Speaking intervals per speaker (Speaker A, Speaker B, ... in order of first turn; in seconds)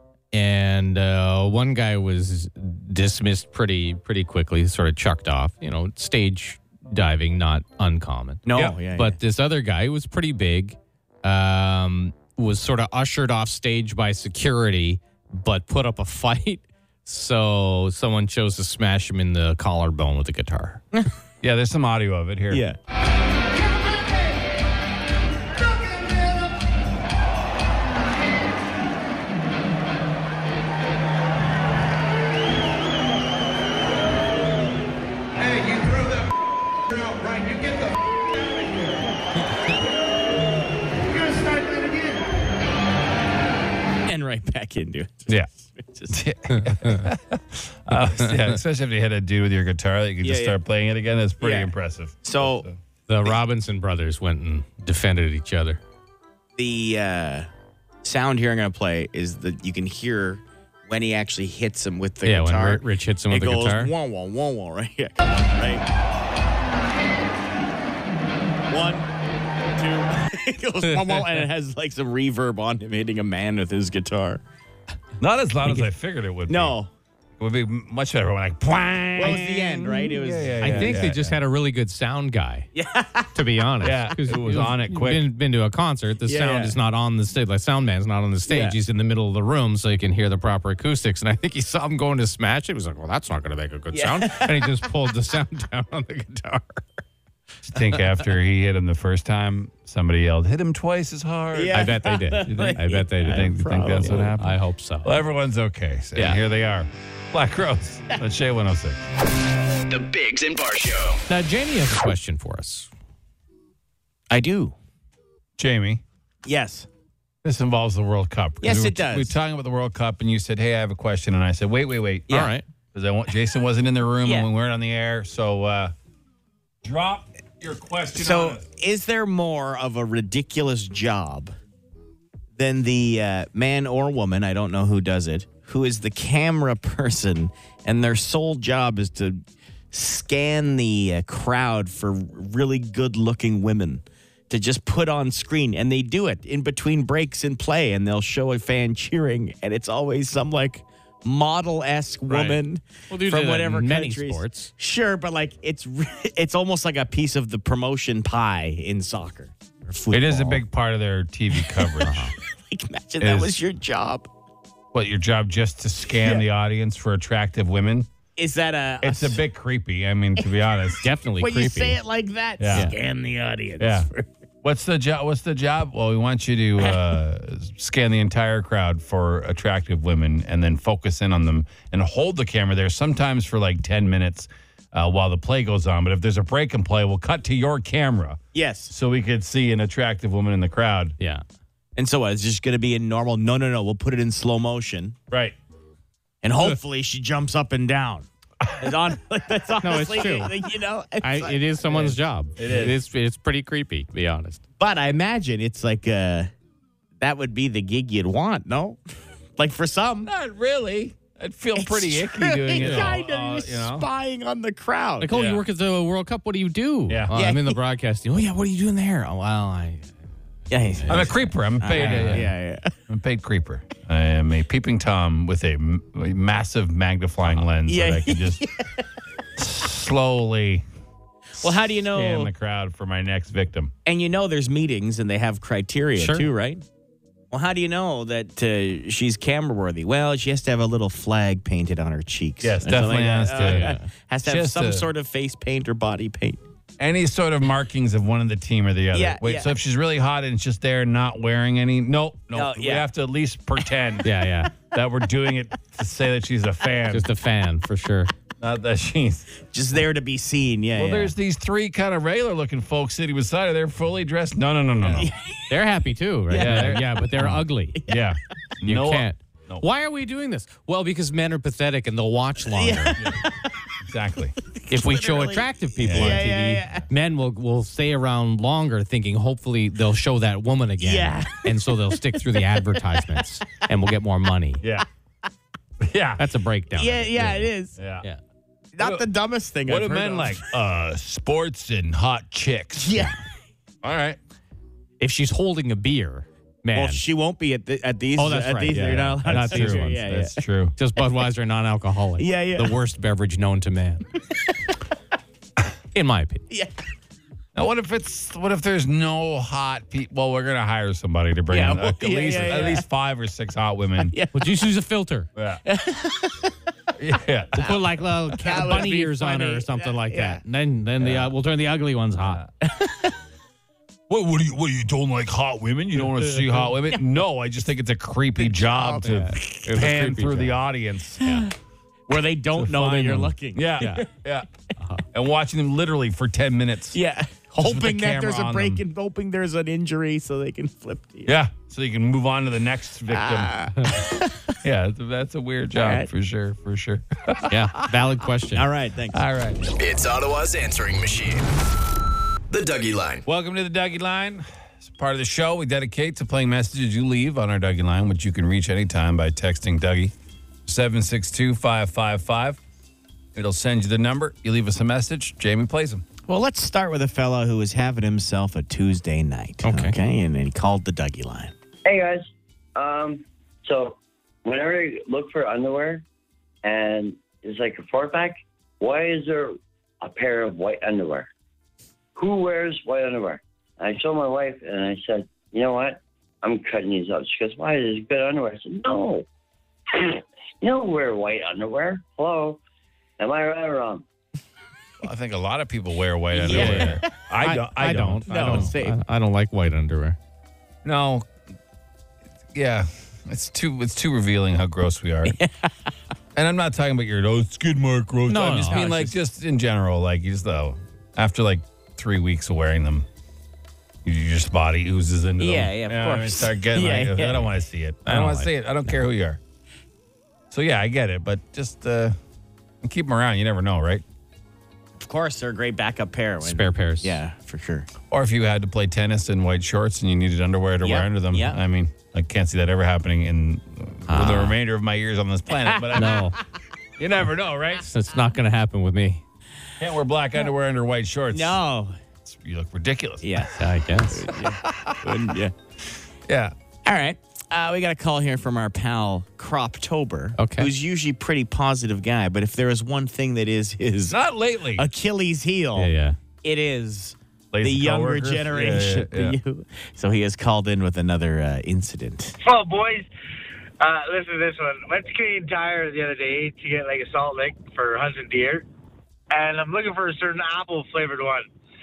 Speaker A: 0.3-20.8, 48.2-48.5, 53.1-55.8, 62.2-63.9, 70.9-71.5, 80.6-82.7, 83.3-96.9, 101.7-103.5, 104.0-105.1, 111.3-112.9, 122.3-122.6, 152.3-152.6, 153.1-154.7, 162.1-162.3, 171.0-172.0, 199.8-200.6, 201.2-204.6, 212.8-213.2, 215.2-220.2, 220.7-222.5, 236.2-236.5, 243.6-244.1, 254.2-254.7, 257.1-258.3, 265.7-268.0, 268.8-273.2, 274.9-284.8, 286.4-287.7, 295.2-297.2, 298.4-300.2, 301.0-304.2, 306.1-306.6, 314.5-315.5, 317.8-322.6, 329.2-330.8, 347.7-348.9, 369.8-370.2, 396.7-400.4, 408.5-409.3, 418.3-418.7, 426.6-427.4, 434.3-434.8, 436.1-436.6, 438.1-439.4, 443.8-444.5, 450.6-450.9, 456.0-456.4
Speaker B: 8.5-9.2, 22.5-22.8, 44.1-46.2, 50.2-50.6, 51.4-52.7, 56.6-57.5, 58.0-65.8, 68.7-69.1, 69.8-74.4, 76.5-76.9, 79.2-81.0, 82.8-83.3, 86.3-86.8, 88.5-88.8, 93.9-94.8, 101.5-104.3, 114.3-114.8, 116.5-116.9, 118.6-119.3, 128.2-131.5, 132.6-139.4, 139.9-160.6, 161.8-162.1, 162.7-164.3, 166.2-166.4, 168.4-169.4, 171.4-174.3, 188.5-188.9, 192.0-195.2, 196.4-198.3, 198.8-201.6, 204.8-206.5, 207.2-209.0, 209.6-210.3, 211.8-215.3, 217.3-217.8, 220.7-222.9, 227.9-228.9, 231.6-232.5, 234.1-236.8, 237.5-246.6, 249.1-249.7, 252.5-253.1, 259.7-261.3, 265.1-265.7, 266.5-267.1, 272.7-273.6, 274.8-277.1, 281.0-283.0, 286.9-288.0, 289.0-290.6, 293.0-293.4, 296.9-300.6, 302.4-302.9, 311.7-313.1, 314.2-314.7, 315.9-316.7, 318.6-320.6, 322.8-323.3, 328.6-329.4, 331.4-331.7, 332.3-334.3, 337.1-341.5, 343.3-344.8, 346.0-346.3, 348.7-349.4, 366.5-371.7, 396.6-397.3, 398.5-399.2, 405.5-405.9, 408.9-409.2, 415.6-417.7, 425.2-428.1, 431.0-431.8, 435.8-436.4, 441.5-442.2, 443.4-445.7, 447.1-454.4, 455.0-456.1, 456.6-462.6
Speaker C: 21.4-22.6, 46.1-52.8, 75.2-76.8, 77.4-81.4, 83.8-85.2, 97.7-101.8, 102.4-109.0, 115.6-116.0, 117.4-125.9, 126.8-128.6, 160.1-162.2, 163.2-163.6, 164.9-168.1, 169.0-171.1, 172.6-172.9, 173.8-174.1, 174.6-191.2, 195.3-195.6, 198.6-198.9, 201.9-203.0, 210.3-214.1, 215.3-215.6, 217.1-217.3, 221.1-222.5, 223.1-228.6, 229.6-230.8, 231.8-233.9, 242.6-245.1, 247.0-257.3, 258.6-259.5, 261.0-265.3, 266.6-269.9, 274.0-274.6, 276.0-276.5, 286.0-286.4, 288.0-288.3, 289.0-289.3, 289.9-293.2, 294.0-294.4, 298.9-300.9, 307.8-314.3, 315.6-315.8, 317.2-317.9, 321.2-321.5, 324.3-331.6, 332.8-334.7, 335.3-337.2, 337.8-339.0, 341.5-343.9, 344.8-347.8, 349.3-349.8, 353.4-360.3, 360.9-362.8, 363.6-366.2, 395.2-398.9, 401.0-401.5, 402.7-405.6, 406.6-413.3, 414.2-419.6, 420.7-422.4, 423.0-424.2, 428.3-436.5, 437.2-438.1, 440.0-441.8, 442.4-443.7, 444.5-445.5, 446.5-446.7, 454.3-455.1, 457.7-459.6
Speaker D: 109.9-111.2, 350.0-351.7, 352.7-353.4
Speaker E: 372.1-376.2, 376.8-381.5, 382.4-389.5, 390.1-392.8, 393.4-394.2
Speaker F: 462.6-463.3, 464.0-468.9, 469.5-471.7